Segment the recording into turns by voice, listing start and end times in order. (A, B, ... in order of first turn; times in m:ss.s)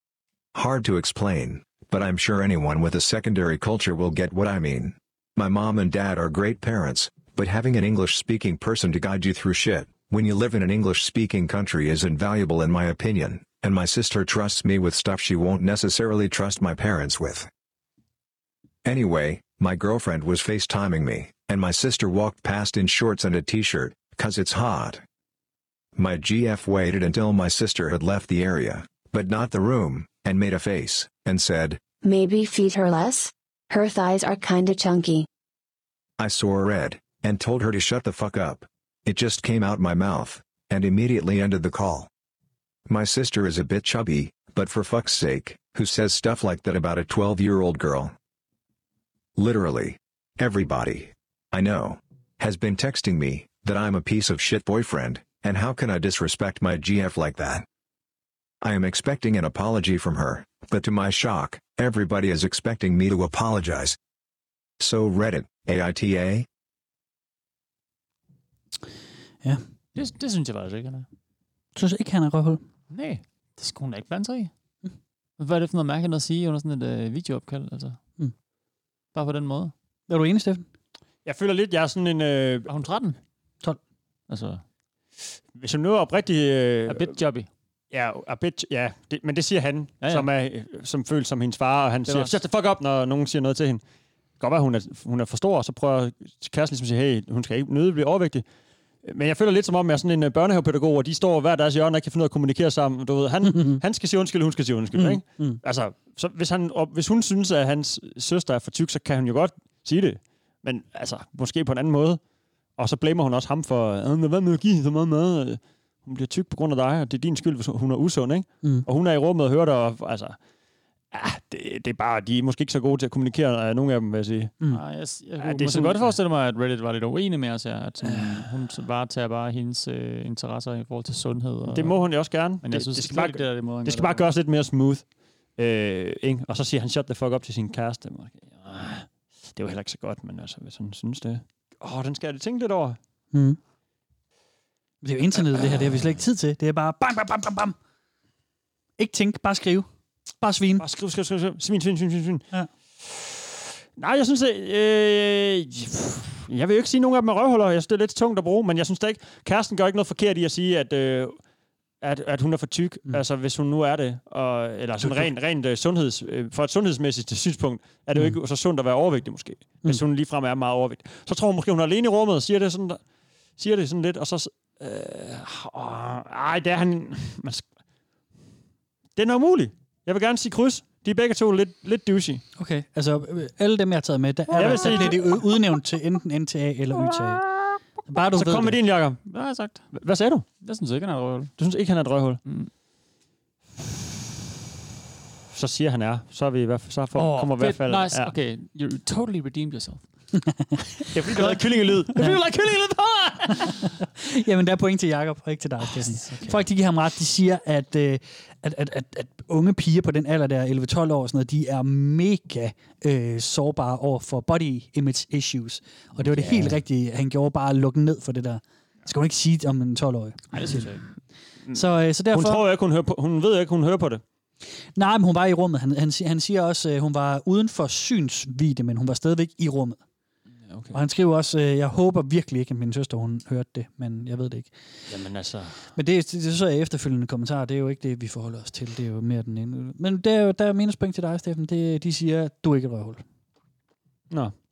0:00.5-0:17.5 A
0:18.8-0:25.0 A
0:26.0-0:31.8 A
0:32.0-0:35.2 B
0:36.2-0:42.1 A
0:42.9-0:48.1 A
0:49.4-0:57.6 A
0:58.6-1:04.0 A
1:04.8-1:06.4 A
1:09.9-1:11.1 C
1:11.7-1:12.6 D
1:12.9-1:14.5 C
1:15.4-1:18.0 C
1:19.1-1:19.7 C
1:20.1-1:20.6 D
1:21.2-1:22.7 E
1:22.7-1:23.2 C
1:24.3-1:24.6 C
1:25.5-1:27.2 E
1:26.9-1:27.5 C
1:27.9-1:33.8 E
1:30.0-1:30.3 C
1:32.1-1:32.4 C
1:34.4-1:38.4 E
1:39.0-1:52.2 E
1:43.4-1:43.8 D
1:44.9-1:45.6 D
1:52.8-2:00.4 E
2:01.1-2:04.5 E
2:04.7-2:14.3 C
2:05.4-2:06.1 E
2:11.7-2:23.0 E
2:23.3-2:23.6 D
2:25.0-2:27.7 D
2:25.5-2:26.0 E
2:29.0-2:30.8 D
2:30.8-2:32.4 E
2:33.0-2:33.4 E
2:34.0-2:41.4 E
2:42.0-2:53.0 E
2:45.0-2:45.3 D
2:53.6-2:57.6 E
2:59.2-3:02.4 E
3:02.6-3:07.4 D
3:04.5-3:05.4 E
3:04.6-3:05.2 C
3:08.1-3:08.8 D
3:08.3-3:09.2 E
3:09.3-3:09.9 C
3:09.9-3:10.4 E
3:10.6-3:11.6 C
3:11.6-3:12.4 E
3:12.4-3:12.7 C
3:15.5-3:18.3 E
3:17.2-3:20.1 C
3:21.1-3:23.6 E
3:21.3-3:22.4 C
3:24.2-3:40.9 D
3:36.2-3:36.8 E
3:40.5-3:41.0 C
3:41.6-3:44.2 E
3:41.7-3:42.6 D
3:44.9-3:50.0 D
3:50.7-3:51.0 E
3:50.9-3:54.7 D
3:55.1-3:55.9 E
3:55.9-4:03.2 D